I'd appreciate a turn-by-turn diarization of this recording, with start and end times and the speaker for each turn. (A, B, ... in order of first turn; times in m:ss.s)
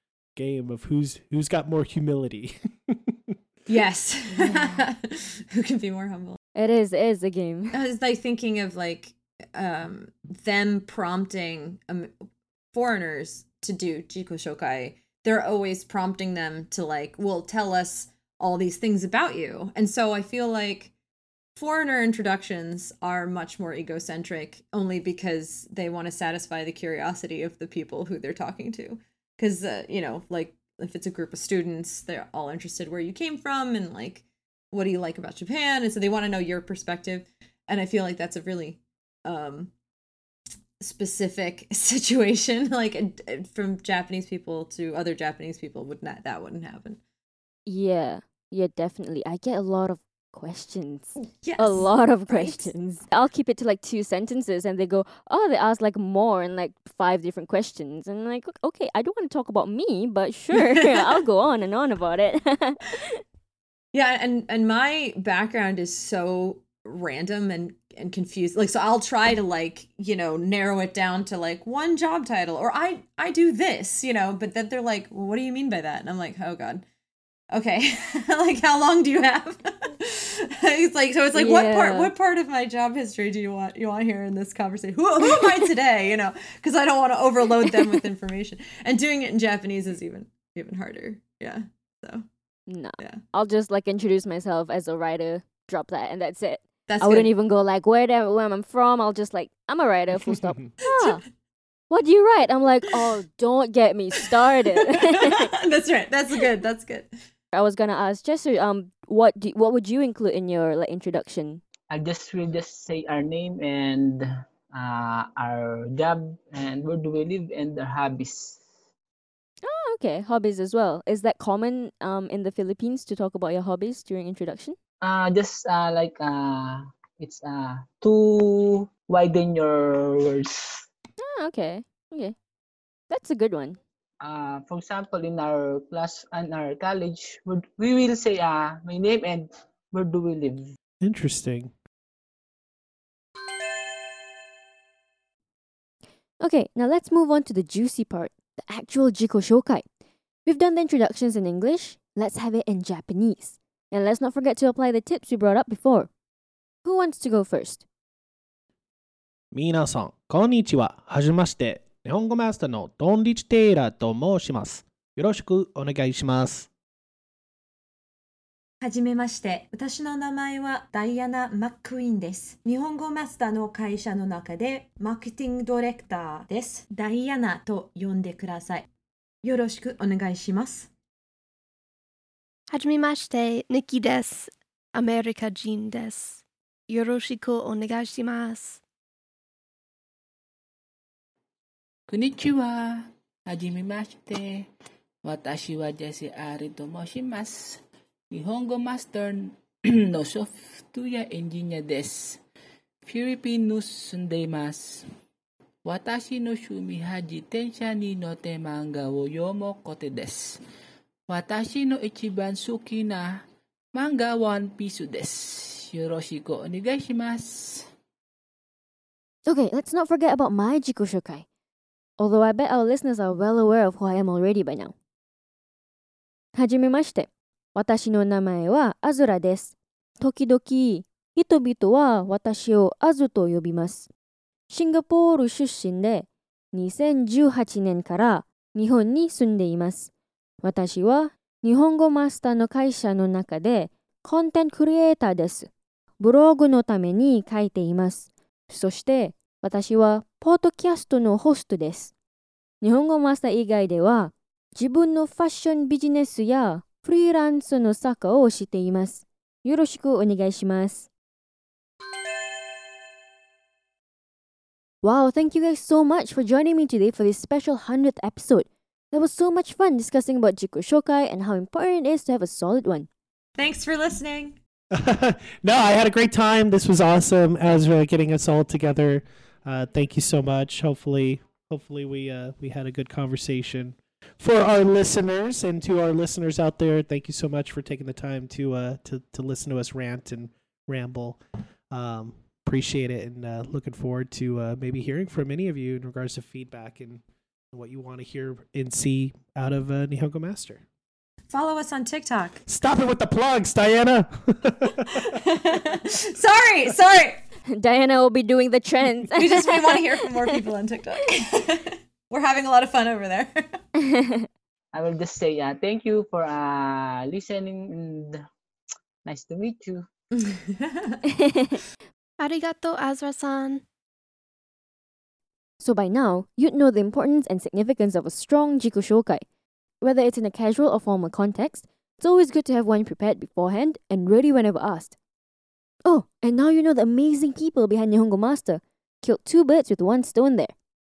0:00.4-0:03.3 A
0:03.7-0:06.4 B
0:04.3-0:04.8 C
0:06.6-0:07.8 C
0:07.7-0:12.1 B
0:12.7-0:20.9 B
0:21.6-0:39.7 B
0:40.8-0:47.0 B
0:47.7-1:03.2 C
0:51.3-0:52.7 B
1:00.5-1:01.2 B
1:03.9-1:16.8 B
1:17.5-1:32.2 B
1:21.3-1:22.1 C
1:25.3-1:25.6 C
1:32.7-1:41.2 C
1:36.9-1:37.3 B
1:40.3-1:40.7 A
1:40.8-1:41.2 B
1:41.9-1:45.5 C
1:44.9-1:47.1 B
1:47.5-1:51.6 C
1:51.9-1:58.7 D
1:59.6-2:04.8 C
2:05.0-2:10.8 D
2:11.2-2:12.4 C
2:13.1-2:13.8 C
2:14.2-2:20.7 D
2:21.0-2:21.7 A
2:26.4-2:29.8 C
2:30.4-2:36.1 C
2:36.8-2:37.8 C
2:39.5-2:46.7 A
2:48.8-2:58.9 B
2:59.4-3:00.9 B
3:02.7-3:08.8 E
3:12.1-3:14.7 F
3:15.2-3:22.4 F
3:23.0-3:25.1 F
3:25.8-3:30.6 F
3:31.3-3:37.9 F
3:39.5-3:41.5 C
3:42.2-3:44.9 C
3:46.5-3:54.1 C
3:54.7-4:00.1 C
4:00.6-4:12.1 C
4:12.8-4:21.1 C
4:25.0-4:33.1 C
4:33.6-4:34.6 B
4:34.9-4:51.4 A
4:51.9-5:00.8 A
5:01.5-5:02.6 B
5:02.7-5:05.4 A
5:05.1-5:07.4 B
5:07.7-5:10.6 C
5:09.4-5:13.8 B
5:14.0-5:14.5 C
5:14.9-5:18.4 D
5:19.2-5:20.1 D
5:20.3-5:21.2 B
5:21.3-5:21.8 C
5:22.4-5:23.8 E
5:25.8-5:29.4 C
5:30.0-5:35.2 C
5:36.0-5:40.7 C